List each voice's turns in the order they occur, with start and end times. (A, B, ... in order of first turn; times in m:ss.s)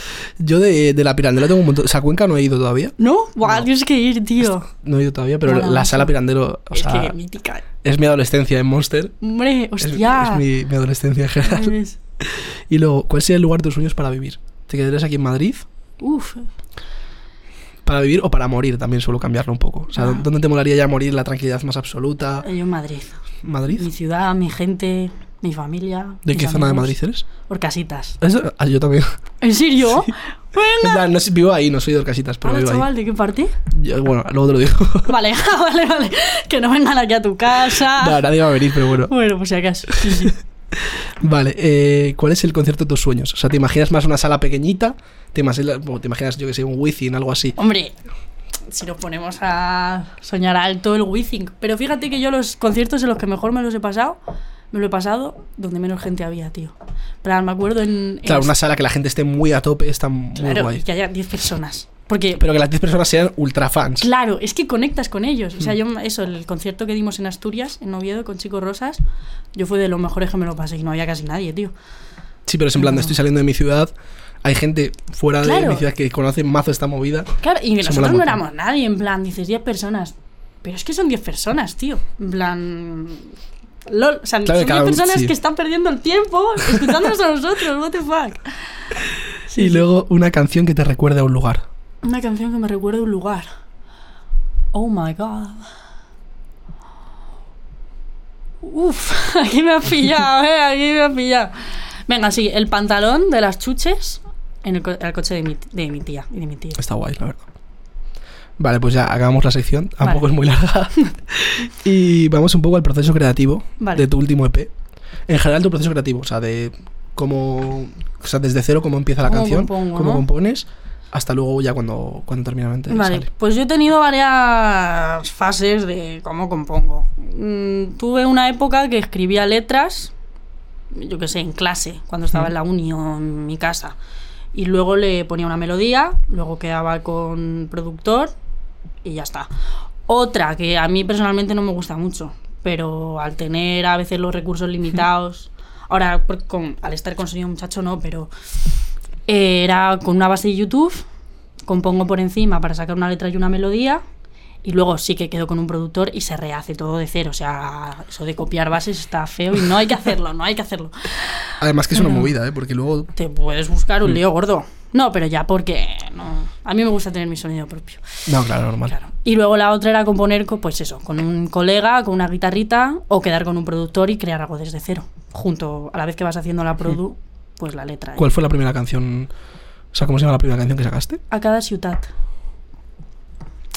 0:00.4-0:02.9 A
0:03.0-0:04.7 B
0:04.7-0:07.2 A
0:05.4-0:06.1 B
0:06.7-0:07.6 B
0:07.8-0:09.2 A
0:09.2-0:10.4 B
0:09.8-0:15.6 A
0:11.4-0:12.0 B
0:16.0-0:16.5 B
0:17.8-0:22.5 A
0:20.0-0:20.3 B
0:22.4-0:23.2 B
0:23.4-0:23.9 A
0:23.7-0:28.2 B
0:26.3-0:27.3 A
0:28.2-0:29.1 A
0:29.4-0:31.1 B
0:30.8-0:32.9 A
0:32.4-0:33.5 B
0:33.7-0:35.1 A
0:35.1-0:38.2 B
0:37.8-0:39.1 A
0:39.0-0:40.4 B
0:41.2-0:47.6 A
0:47.6-0:47.9 B
0:48.7-0:54.2 B
0:54.7-0:58.5 B
0:58.2-1:00.8 A
1:00.4-1:02.4 B
1:02.4-1:04.1 A
1:04.0-1:09.0 B
1:09.6-1:11.7 B
1:12.5-1:13.9 A
1:12.8-1:13.1 B
1:14.4-1:18.4 A
1:15.4-1:15.8 B
1:17.4-1:23.3 B
1:23.9-1:28.6 B
1:24.4-1:25.3 A
1:29.5-1:29.8 B
1:29.5-1:31.6 A
1:32.0-1:33.5 B
1:34.7-1:35.7 B
1:38.6-1:46.8 B
1:46.8-1:47.4 A
1:48.6-1:54.7 A
1:50.0-1:50.3 B
1:53.8-1:54.1 B
1:55.3-2:03.3 A
1:59.2-2:00.3 B
2:02.9-2:10.1 B
2:10.9-2:14.0 B
2:14.5-2:18.3 B
2:19.0-2:19.5 B
2:20.1-2:28.3 B
2:29.3-2:31.0 B
2:31.7-2:34.0 B
2:34.6-2:42.3 B
2:41.6-2:43.1 A
2:43.2-2:48.1 B
2:48.3-2:49.0 A
2:48.8-2:58.3 B
2:58.2-2:59.3 A
2:59.9-3:01.2 A
3:01.3-3:02.1 B